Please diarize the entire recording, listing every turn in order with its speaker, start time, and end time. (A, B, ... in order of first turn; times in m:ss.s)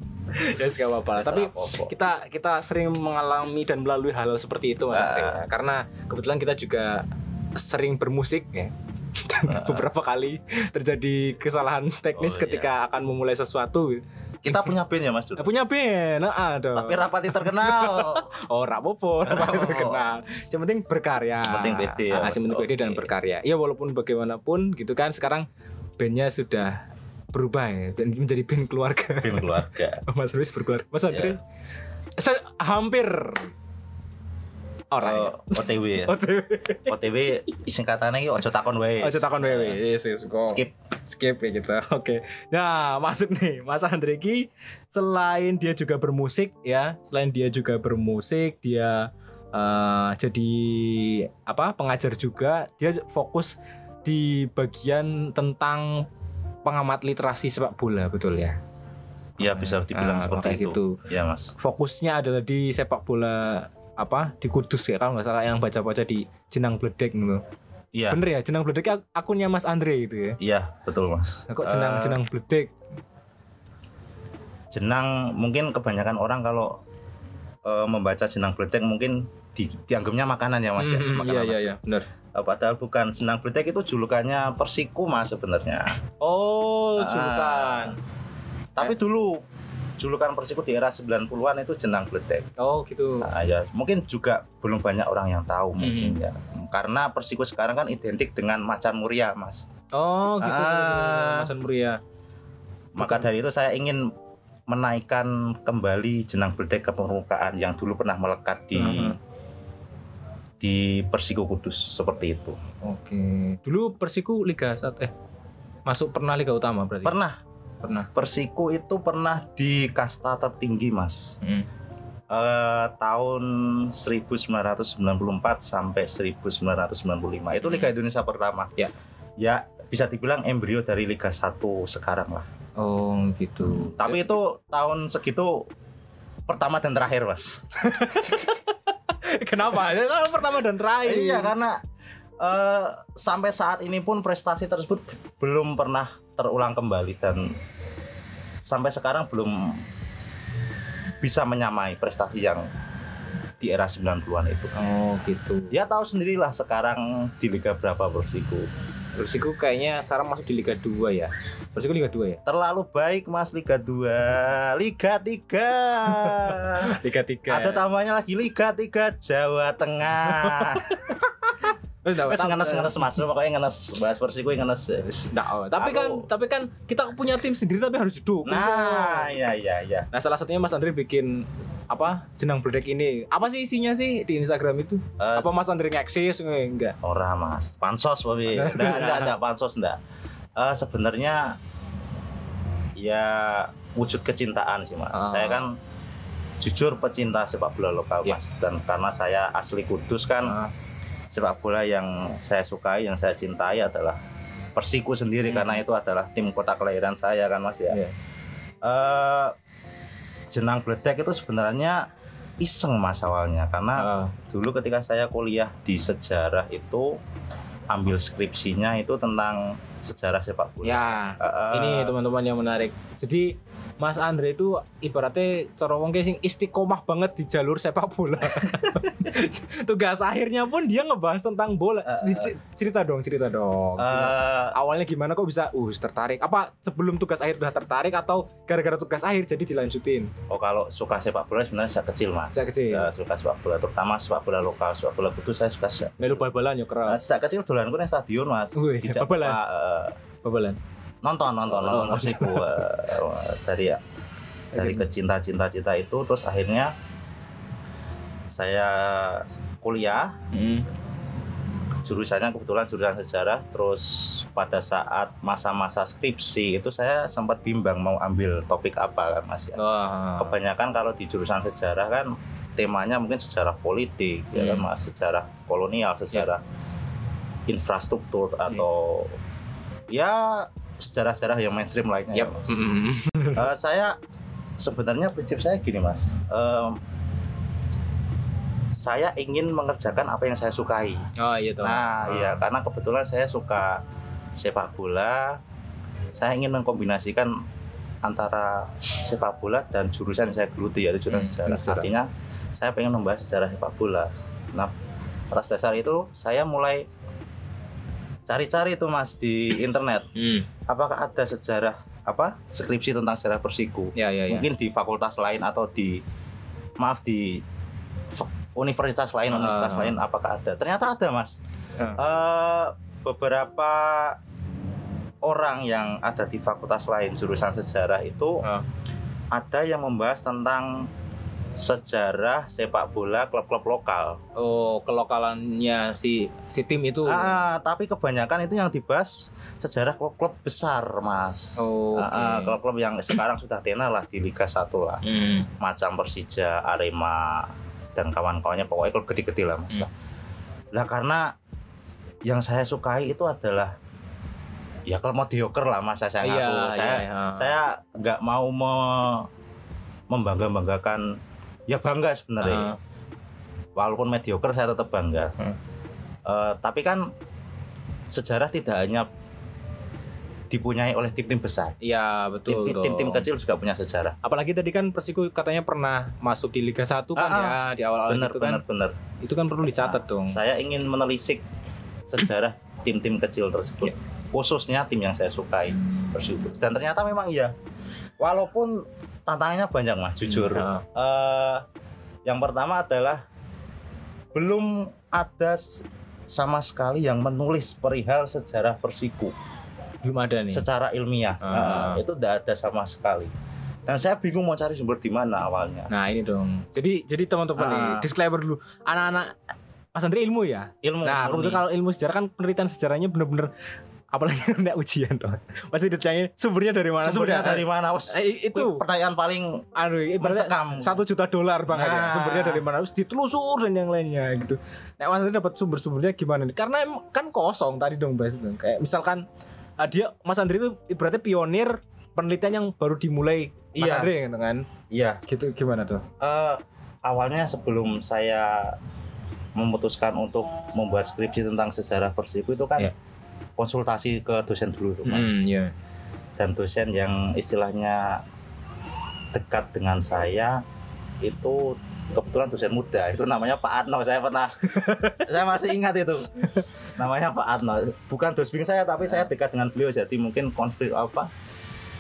0:00.3-0:14.7 A
0:01.2-0:01.9 B
0:04.9-0:05.4 B
0:09.5-0:09.9 B
0:12.2-0:12.7 B
0:14.4-0:15.5 B
0:15.4-0:25.4 A
0:16.7-0:18.2 B
0:19.2-0:20.0 B
0:21.4-0:23.1 B
0:26.0-0:26.8 A
0:27.3-0:31.4 A
0:29.2-0:30.0 B
0:32.2-0:33.5 A
0:34.9-0:37.0 A
0:35.0-0:36.1 B
0:36.9-0:39.8 B
0:39.0-0:56.1 A
0:40.4-0:40.7 B
0:56.6-0:58.6 A
0:59.4-1:01.5 B
0:59.4-1:01.0 A
1:01.6-1:07.4 A
1:07.9-1:08.2 B
1:08.1-1:10.4 A
1:10.4-1:12.2 B
1:11.5-1:12.7 A
1:14.7-1:16.8 B
1:17.6-1:21.8 B
1:20.8-1:22.1 A
1:22.3-1:26.0 B
1:26.2-1:28.0 A
1:27.0-1:28.0 B
1:28.8-1:29.4 B
1:30.0-1:32.5 B
1:32.6-1:33.3 A
1:33.2-1:39.7 B
1:35.8-1:36.2 A
1:39.9-1:42.0 A
1:40.4-1:41.5 B
1:42.9-1:44.1 B
1:43.0-1:43.2 A
1:44.7-1:49.2 B
1:48.7-1:49.2 A
1:50.6-1:52.6 B
1:52.8-1:55.1 A
1:55.9-1:57.2 A
1:57.0-1:57.4 B
1:57.8-1:58.1 A
1:58.1-2:01.3 B
2:01.4-2:01.7 A
2:02.3-2:08.7 B
2:09.4-2:12.4 B
2:12.8-2:14.2 A
2:13.6-2:15.6 B
2:16.5-2:17.6 B
2:17.8-2:21.5 A
2:21.0-2:21.8 B
2:22.4-2:27.5 B
2:28.6-2:29.8 B
2:31.2-2:32.6 B
2:33.6-2:34.7 B
2:34.7-2:35.7 A
2:35.7-2:38.7 B
2:39.2-2:42.4 A
2:42.4-2:51.2 B
2:46.2-2:47.8 A
2:50.3-2:53.1 A
2:52.2-2:55.0 B
2:55.0-2:59.4 A
2:55.8-2:56.3 B
2:58.4-3:00.1 B
3:00.1-3:06.9 A
3:05.2-3:05.5 B
3:07.0-3:10.0 B
3:08.5-3:09.3 A
3:10.6-3:11.6 B
3:13.0-3:15.7 B
3:15.1-3:15.6 A
3:16.6-3:20.5 B
3:20.4-3:20.7 A
3:21.3-3:24.2 B
3:24.8-3:28.0 B
3:25.5-3:25.8 A
3:28.8-3:29.5 B
3:30.5-3:32.0 B
3:32.6-3:37.2 B
3:34.0-3:34.4 A
3:37.9-3:42.2 B
3:40.8-4:00.3 A
3:52.0-3:52.5 B
3:54.0-3:54.7 B
4:00.5-4:06.4 B
4:02.5-4:03.1 A
4:06.2-4:07.2 A
4:07.0-4:10.2 B
4:08.7-4:09.6 A
4:10.4-4:10.8 A
4:11.2-4:14.0 B
4:11.7-4:12.8 A
4:14.7-4:15.1 A
4:14.8-4:16.9 B
4:18.5-4:20.4 B
4:20.5-4:20.8 A
4:22.0-4:29.8 B
4:29.8-4:30.5 A
4:30.4-4:36.6 B
4:34.5-4:34.8 A
4:37.7-4:39.3 B
4:40.1-4:42.7 B
4:42.3-4:43.7 A
4:43.5-4:44.2 B
4:44.8-4:47.0 B
4:48.9-4:51.3 B
4:51.4-4:52.6 A
4:51.8-4:54.0 B
4:54.6-4:55.6 B
4:56.3-4:57.5 B
4:58.2-5:04.9 B
5:01.3-5:02.1 A
5:05.5-5:07.0 B
5:08.5-5:10.3 B
5:10.4-5:10.7 A
5:10.9-5:16.2 B
5:14.2-5:14.7 A
5:17.0-5:17.6 B
5:18.3-5:21.6 B
5:19.5-5:20.2 A
5:22.2-5:24.4 B
5:25.4-5:28.6 B
5:29.5-5:31.1 B
5:31.8-5:34.4 B
5:34.6-5:37.5 A
5:37.2-5:45.2 B
5:41.8-5:42.8 A
5:45.2-5:45.7 A
5:45.8-5:50.1 B
5:50.9-5:51.5 B
5:52.4-5:54.0 B
5:55.1-5:59.5 B
5:56.4-5:57.7 A
6:00.3-6:01.3 B
6:01.9-6:02.9 B
6:02.6-6:03.0 A
6:04.0-6:05.5 B
6:06.4-6:07.3 B
6:08.3-6:09.3 B
6:10.7-6:12.0 B
6:12.0-6:13.4 A
6:12.7-6:14.4 B
6:14.4-6:18.8 A
6:17.4-6:19.2 B
6:19.4-6:20.6 A
6:19.9-6:21.6 B
6:22.3-6:27.7 B
6:28.4-6:31.8 B
6:30.4-6:31.0 A
6:32.4-6:33.4 B
6:34.5-6:39.5 B
6:40.2-6:40.8 A
6:40.7-6:43.5 B
6:41.6-6:42.2 A
6:44.1-6:46.1 B
6:46.1-6:49.5 A
6:47.8-6:48.3 B
6:50.1-6:53.7 A
6:51.0-6:51.8 B
6:54.3-6:59.0 A
6:57.2-6:59.9 B
7:00.0-7:09.4 A
7:00.4-7:01.2 B
7:01.9-7:02.8 B
7:10.0-7:14.8 A
7:14.0-7:14.3 B
7:15.1-7:15.4 B
7:15.5-7:16.2 A
7:16.4-7:19.0 B
7:19.8-7:23.1 B
7:23.8-7:25.6 B
7:25.3-7:25.9 A
7:26.6-7:28.4 B
7:29.5-7:30.8 B
7:31.4-7:41.5 B
7:35.0-7:35.4 A